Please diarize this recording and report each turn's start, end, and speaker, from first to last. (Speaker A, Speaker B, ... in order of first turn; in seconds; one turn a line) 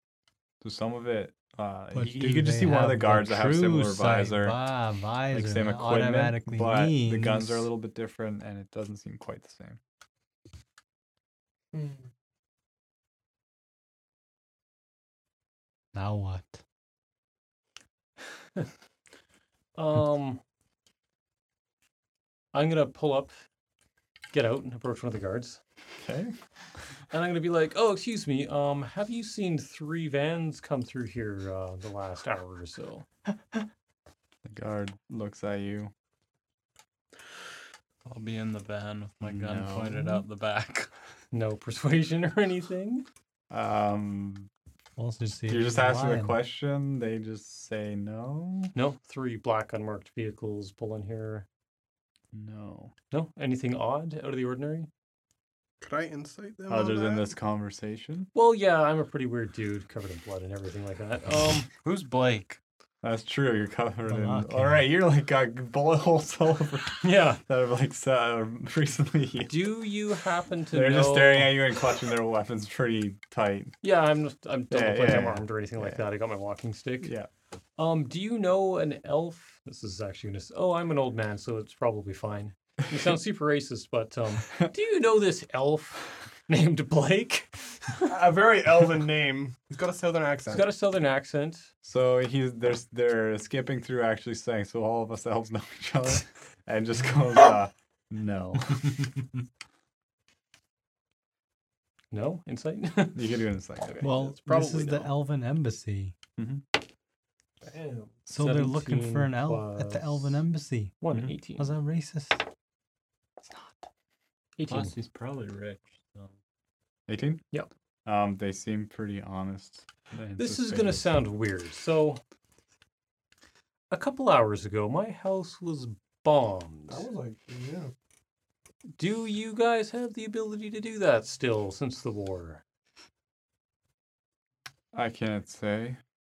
Speaker A: 0.6-4.6
Speaker B: 1.9-7.7
Speaker A: 5.3-9.8
Speaker C: 11.7-12.1
Speaker B: 15.9-16.6
Speaker D: 19.8-20.4
Speaker D: 22.5-23.4
Speaker D: 24.3-25.6
Speaker A: 26.0-26.3
Speaker D: 27.1-33.0
Speaker A: 34.4-35.9
Speaker E: 38.0-40.9
Speaker A: 39.2-40.2
Speaker D: 41.3-43.0
Speaker A: 43.5-44.5
Speaker B: 45.0-46.4
Speaker A: 45.5-48.7
Speaker D: 48.8-51.5
Speaker A: 52.3-52.9
Speaker D: 53.1-54.9
Speaker C: 55.8-57.3
Speaker A: 56.7-58.3
Speaker D: 58.3-61.7
Speaker E: 61.7-62.6
Speaker A: 63.0-69.7
Speaker B: 64.1-64.8
Speaker D: 67.0-67.4
Speaker D: 69.5-71.6
Speaker A: 70.7-73.8
Speaker D: 73.8-77.1
Speaker A: 74.7-76.0
Speaker A: 77.0-77.3
Speaker D: 77.8-88.0
Speaker C: 88.0-90.7
Speaker D: 90.5-91.7
Speaker A: 91.8-99.1
Speaker D: 102.1-104.0
Speaker A: 103.1-104.0
Speaker B: 104.0-106.1
Speaker C: 104.1-105.1
Speaker A: 106.4-106.7
Speaker C: 107.6-108.1
Speaker B: 108.3-111.0
Speaker D: 108.3-110.4
Speaker D: 111.0-111.7
Speaker B: 111.6-112.5
Speaker D: 114.6-114.9
Speaker E: 114.7-116.3
Speaker A: 117.1-117.5
Speaker A: 118.0-121.1
Speaker D: 120.4-122.2
Speaker D: 123.9-127.0
Speaker C: 126.9-127.9
Speaker D: 129.0-132.6
Speaker A: 134.9-136.0